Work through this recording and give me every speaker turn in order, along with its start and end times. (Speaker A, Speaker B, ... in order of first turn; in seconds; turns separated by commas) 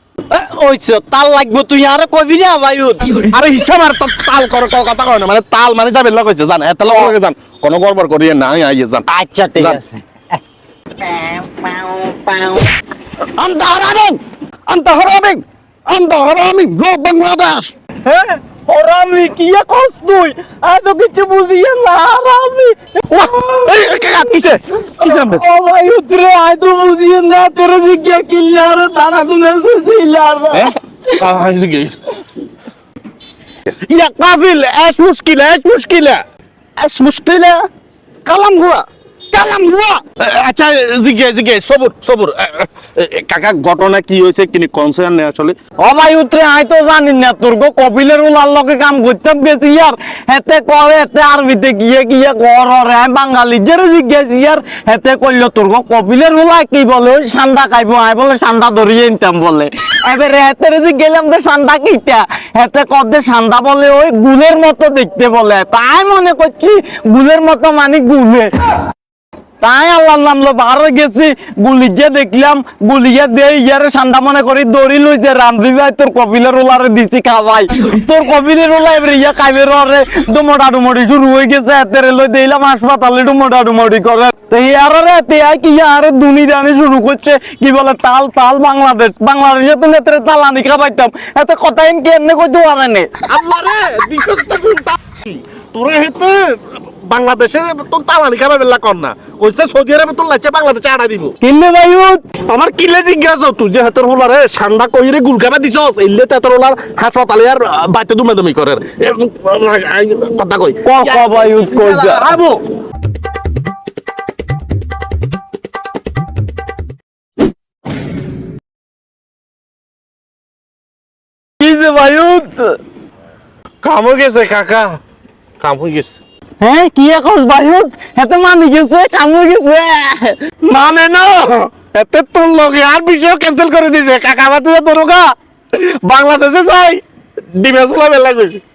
Speaker A: 0.3-3.3, Speaker B: 3.3-9.1, Speaker A: 6.8-7.1, Speaker A: 9.1-10.0, Speaker A: 11.0-12.7, Speaker C: 13.4-17.7, Speaker A: 18.0-23.8, Speaker B: 23.1-25.4, Speaker A: 25.0-30.7, Speaker B: 30.5-31.9, Speaker B: 33.9-36.2, Speaker C: 36.8-37.7, Speaker C: 38.2-40.0, Speaker B: 40.2-45.5, Speaker A: 45.8-68.5, Speaker A: 69.6-93.1, Speaker B: 93.3-101.4, Speaker A: 101.4-102.2, Speaker B: 102.3-112.6, Speaker A: 110.8-112.3, Speaker A: 121.6-122.8, Speaker B: 123.8-125.0, Speaker B: 125.6-126.2, Speaker A: 126.6-130.4, Speaker B: 130.6-137.0, Speaker B: 137.5-138.6